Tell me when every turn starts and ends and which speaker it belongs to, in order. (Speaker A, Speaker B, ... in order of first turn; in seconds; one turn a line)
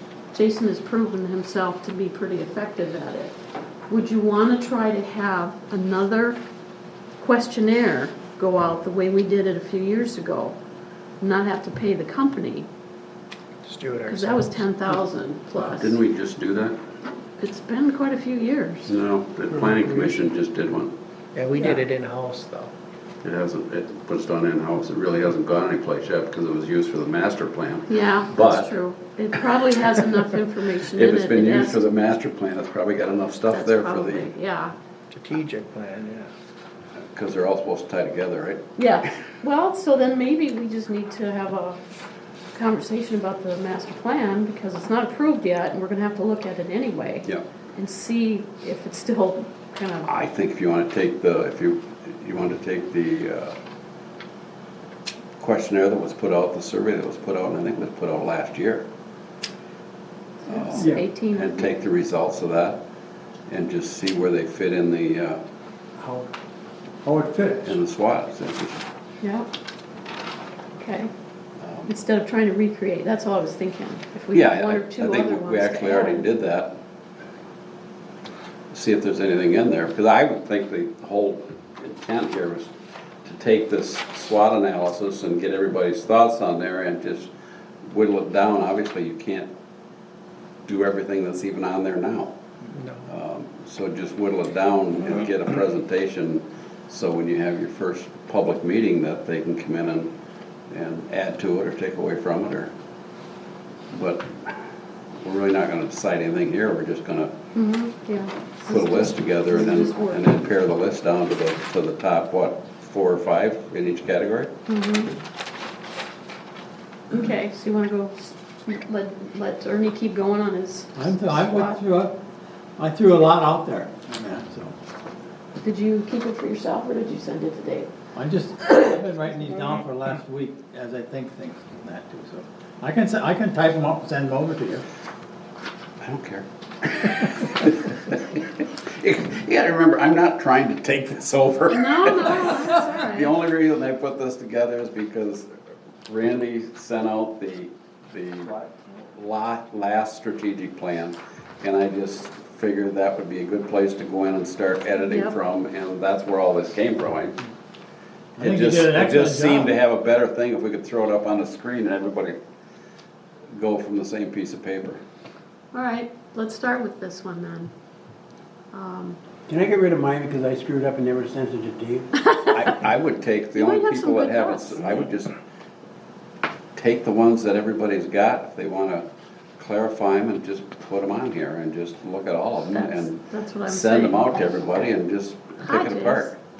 Speaker A: 0.3-3.3
Speaker A: 3.9-6.4
Speaker A: 7.2-10.6
Speaker A: 11.2-12.7
Speaker B: 13.6-14.5
Speaker A: 14.1-16.0
Speaker C: 15.6-16.8
Speaker A: 17.4-18.9
Speaker C: 18.9-20.9
Speaker B: 21.3-22.7
Speaker A: 21.5-21.8
Speaker C: 23.2-28.7
Speaker A: 27.9-31.8
Speaker C: 30.9-34.3
Speaker A: 33.5-34.7
Speaker B: 35.1-36.3
Speaker C: 37.1-38.6
Speaker A: 38.8-41.8
Speaker A: 42.5-50.1
Speaker C: 50.0-53.5
Speaker C: 55.4-58.8
Speaker A: 60.4-61.7
Speaker C: 60.5-62.8
Speaker C: 63.5-65.4
Speaker D: 67.0-67.6
Speaker E: 67.1-67.5
Speaker C: 67.6-68.8
Speaker A: 69.2-69.5
Speaker A: 70.8-71.1
Speaker C: 71.6-71.9
Speaker A: 71.9-76.2
Speaker C: 74.3-76.7
Speaker C: 78.7-82.7
Speaker C: 83.2-87.3
Speaker C: 87.8-89.5
Speaker C: 90.7-92.3
Speaker B: 92.7-93.0
Speaker C: 93.1-100.1
Speaker C: 100.7-102.7
Speaker C: 103.9-104.6
Speaker C: 105.2-107.3
Speaker A: 107.5-110.2
Speaker C: 108.6-114.5
Speaker A: 114.7-115.1
Speaker A: 117.1-121.8
Speaker D: 120.9-122.2
Speaker D: 122.8-124.7
Speaker A: 125.6-127.9
Speaker D: 128.1-134.8
Speaker C: 136.0-145.5
Speaker A: 141.7-143.3
Speaker C: 146.1-157.4
Speaker A: 155.0-155.4
Speaker C: 158.3-162.3
Speaker D: 158.4-159.7
Speaker C: 163.5-165.0
Speaker A: 165.7-167.7
Speaker A: 168.7-169.2
Speaker E: 169.5-172.1
Speaker A: 172.2-172.6
Speaker C: 172.5-175.3
Speaker A: 173.5-175.0
Speaker C: 176.8-179.1
Speaker C: 179.6-186.3
Speaker A: 182.7-184.8
Speaker A: 185.6-186.3